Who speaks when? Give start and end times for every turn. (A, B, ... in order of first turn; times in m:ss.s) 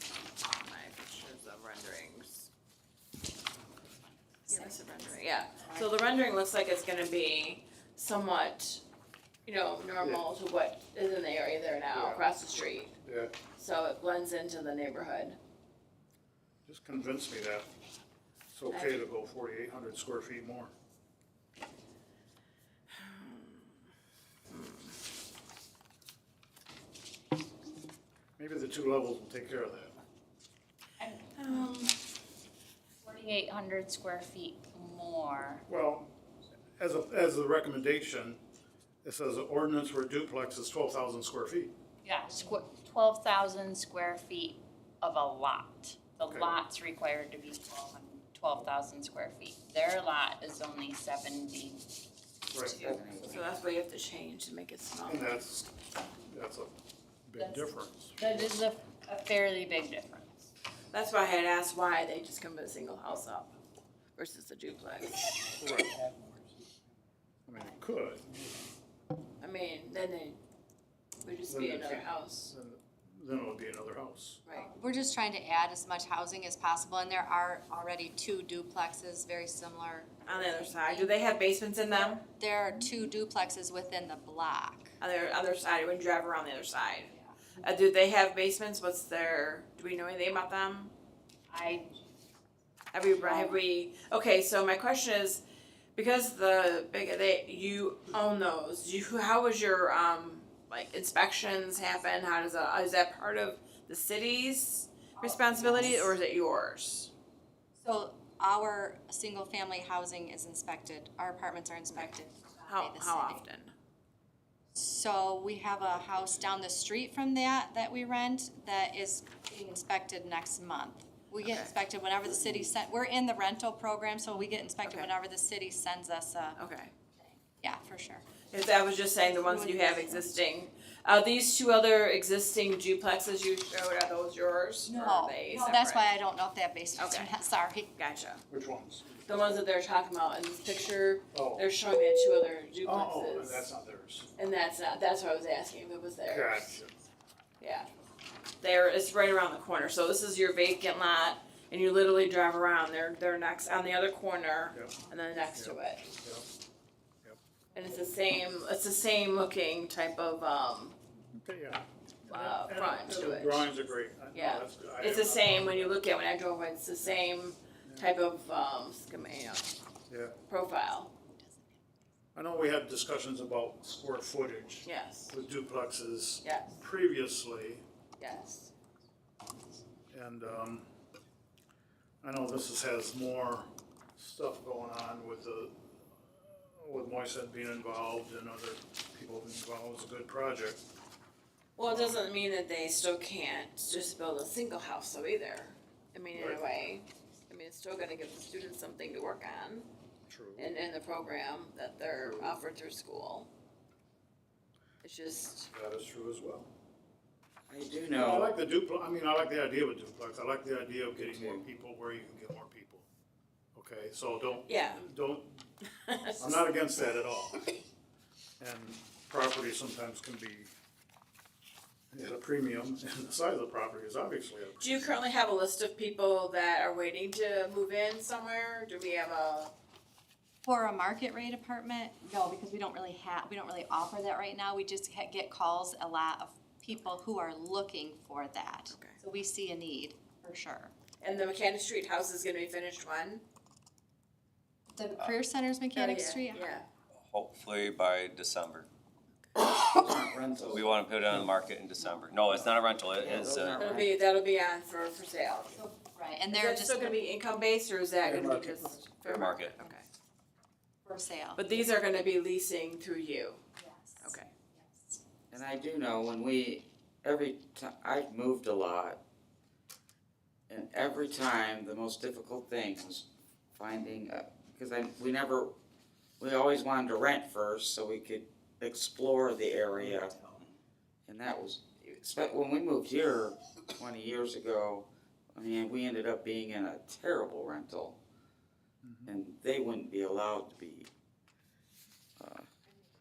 0:00.6-0:02.5 A
0:04.5-0:08.8 A
0:09.4-0:13.0 A
0:10.0-0:10.3 B
0:11.9-0:12.2 B
0:13.0-0:13.3 B
0:13.6-0:15.4 A
0:16.6-0:17.7 B
0:18.5-0:20.7 B
0:18.7-0:19.0 A
0:23.0-0:23.7 A
0:24.5-0:24.9 A
0:28.4-0:30.0 B
0:31.0-0:31.7 C
0:31.4-0:32.0 A
0:33.0-0:35.6 C
0:35.7-0:36.1 B
0:36.8-0:38.4 B
0:39.0-0:41.7 B
0:42.0-0:51.8 C
0:46.2-0:46.5 B
0:52.5-0:52.8 B
0:52.8-0:53.5 D
0:52.8-0:55.3 A
0:55.0-0:58.5 B
0:57.4-1:00.5 C
1:00.9-1:03.6 A
1:04.2-1:05.3 A
1:05.6-1:06.7 B
1:07.5-1:08.7 B
1:09.4-1:10.4 A
1:11.2-1:12.5 A
1:11.5-1:14.4 B
1:14.5-1:21.3 E
1:20.3-1:22.2 A
1:22.0-1:25.0 E
1:25.0-1:30.9 A
1:31.5-1:32.0 C
1:32.9-1:35.4 A
1:33.1-1:33.6 C
1:36.0-1:47.1 A
1:45.2-1:46.2 E
1:47.8-1:53.4 E
1:52.7-1:53.7 A
1:54.8-2:06.6 E
2:01.4-2:01.7 A
2:04.8-2:05.1 A
2:06.6-2:06.9 A
2:07.4-2:08.3 E
2:08.5-2:16.1 A
2:09.4-2:10.4 E
2:14.9-2:18.0 E
2:17.0-2:17.3 A
2:18.0-2:18.4 A
2:18.5-2:19.6 B
2:19.3-2:23.6 A
2:21.3-2:21.7 B
2:22.8-2:24.3 B
2:24.4-2:26.8 A
2:26.3-2:27.0 B
2:27.6-2:27.9 A
2:28.6-2:36.1 A
2:35.5-2:36.5 B
2:37.7-2:41.0 A
2:41.3-2:46.0 B
2:42.3-2:43.7 A
2:44.3-2:49.8 A
2:47.8-2:48.1 B
2:50.1-2:50.4 B
2:50.5-2:51.1 A
2:51.4-2:51.6 E
2:52.4-2:57.8 B
2:54.8-2:55.4 A
2:56.4-2:56.8 A
2:58.2-2:58.7 A
3:00.1-3:00.9 B
3:02.2-3:10.8 B
3:11.8-3:19.9 A
3:11.8-3:12.2 B
3:16.3-3:16.6 B
3:20.3-3:20.7 B
3:20.6-3:23.5 A
3:25.0-3:25.7 A
3:25.7-3:26.7 B
3:27.7-3:28.5 D
3:28.2-3:33.1 B
3:31.2-3:31.6 D
3:33.8-3:35.6 B
3:34.7-3:35.1 A
3:36.0-3:36.6 A
3:36.4-3:37.7 B
3:38.6-3:40.7 B
3:42.1-3:45.2 B
3:44.8-3:49.7 A
3:50.6-4:00.9 E
3:58.9-3:59.2 A
4:01.2-4:03.4 A
4:05.0-4:06.8 E
4:06.0-4:06.9 A
4:07.3-4:08.9 F
4:09.6-4:10.9 D
4:10.7-4:14.0 F
4:13.2-4:14.1 D
4:13.8-4:15.8 A
4:15.7-4:17.2 E
4:16.5-4:20.0 A
4:18.3-4:18.8 B
4:19.2-4:19.7 F
4:21.0-4:21.8 E
4:21.6-4:23.6 A
4:23.8-4:25.2 E
4:24.2-4:24.5 A
4:25.5-4:29.2 D
4:30.7-4:35.7 D
4:36.4-4:40.4 D
4:41.3-4:48.2 D
4:49.0-4:49.3 B
4:49.3-4:51.1 D
4:52.4-4:52.7 D